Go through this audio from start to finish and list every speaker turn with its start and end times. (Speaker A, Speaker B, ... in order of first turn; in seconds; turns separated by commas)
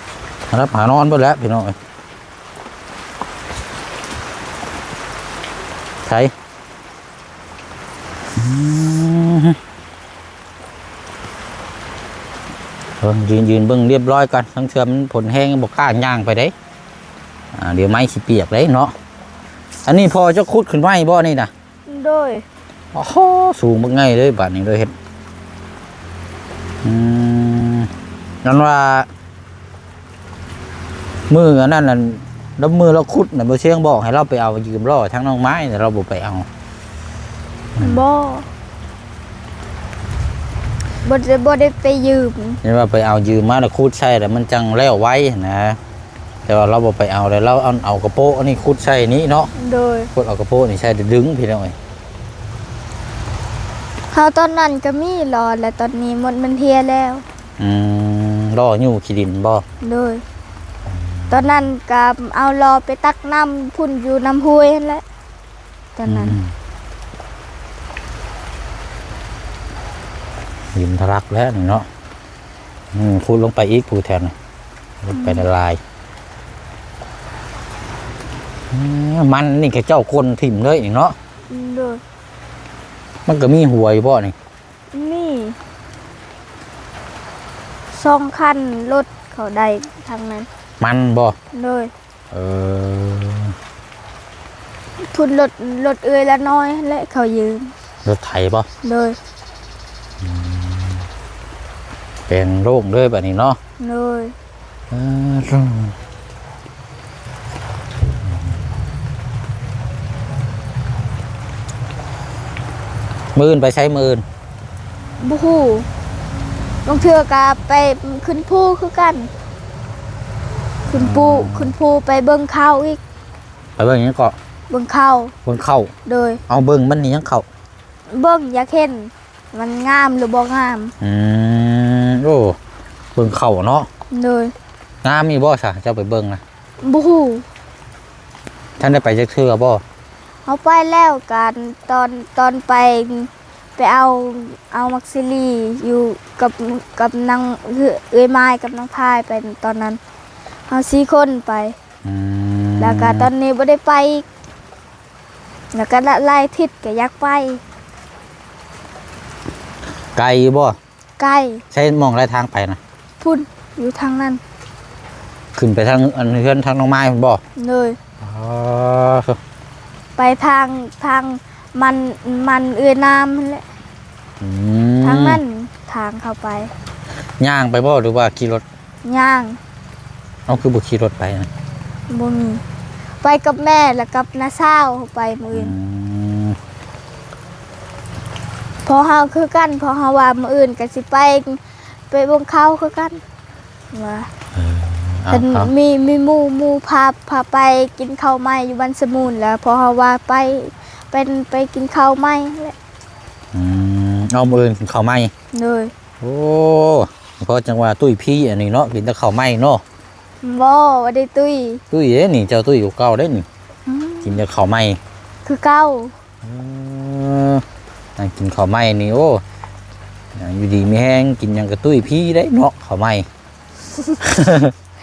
Speaker A: 0.5-1.8, Speaker A: 6.0-6.3, Speaker A: 8.3-9.6, Speaker A: 13.0-16.5, Speaker A: 17.5-18.9, Speaker A: 19.8-21.5, Speaker B: 21.9-22.4, Speaker A: 22.9-24.9, Speaker A: 26.8-27.9, Speaker A: 28.4-29.1, Speaker A: 31.3-36.5, Speaker A: 37.8-38.0, Speaker B: 37.8-38.5, Speaker B: 41.0-42.6, Speaker A: 42.6-45.8, Speaker A: 46.5-49.5, Speaker B: 49.5-50.1, Speaker A: 50.1-51.8, Speaker B: 54.1-57.2, Speaker A: 57.6-59.6, Speaker B: 59.8-60.2, Speaker A: 60.9-61.5, Speaker B: 61.3-65.0, Speaker B: 66.0-66.4, Speaker A: 66.1-66.5, Speaker A: 70.7-71.8, Speaker A: 72.9-74.3, Speaker A: 75.0-75.8, Speaker B: 75.1-75.4, Speaker A: 78.7-81.1, Speaker B: 81.5-82.0, Speaker A: 83.2-84.3, Speaker B: 84.9-85.6, Speaker B: 87.9-90.5, Speaker A: 90.8-91.3, Speaker B: 91.5-91.9, Speaker A: 92.3-93.5, Speaker B: 95.0-97.7, Speaker A: 98.0-98.7, Speaker B: 98.8-99.2, Speaker A: 100.2-101.0, Speaker A: 102.3-103.6, Speaker B: 103.8-104.3, Speaker A: 104.9-105.9, Speaker A: 113.3-114.2, Speaker B: 115.2-115.9, Speaker B: 116.8-119.3, Speaker A: 120.8-121.7, Speaker B: 120.9-123.0, Speaker A: 123.8-124.3, Speaker B: 124.7-125.3, Speaker A: 125.4-125.9, Speaker B: 126.0-126.4, Speaker A: 126.5-127.5, Speaker B: 128.1-130.9, Speaker A: 131.0-132.6, Speaker A: 133.2-133.9, Speaker B: 134.1-134.5, Speaker A: 135.0-136.4, Speaker B: 136.8-137.4, Speaker A: 138.8-139.8, Speaker B: 140.4-150.0, Speaker B: 150.7-151.8, Speaker A: 152.0-153.3, Speaker B: 152.8-154.2, Speaker B: 155.7-157.6, Speaker A: 160.1-160.8, Speaker B: 161.2-161.6, Speaker A: 161.7-162.8, Speaker B: 163.2-164.4, Speaker A: 165.6-167.4, Speaker B: 167.6-168.0, Speaker A: 168.2-169.4, Speaker B: 170.2-173.6, Speaker A: 174.4-175.4, Speaker B: 175.0-176.7, Speaker A: 177.4-178.6, Speaker B: 179.0-179.6, Speaker A: 180.5-181.5, Speaker B: 182.1-182.6, Speaker B: 183.2-185.7, Speaker A: 185.5-186.6, Speaker B: 188.8-193.2, Speaker B: 193.9-194.3, Speaker A: 194.5-195.7, Speaker B: 195.3-202.7, Speaker A: 203.5-205.3, Speaker B: 205.5-205.9, Speaker A: 206.2-209.8, Speaker B: 210.4-211.8, Speaker A: 211.9-213.4, Speaker B: 213.9-214.4, Speaker A: 214.2-215.0, Speaker B: 215.4-216.1, Speaker A: 216.4-217.6, Speaker A: 218.2-219.4, Speaker A: 220.3-223.2, Speaker A: 224.2-224.7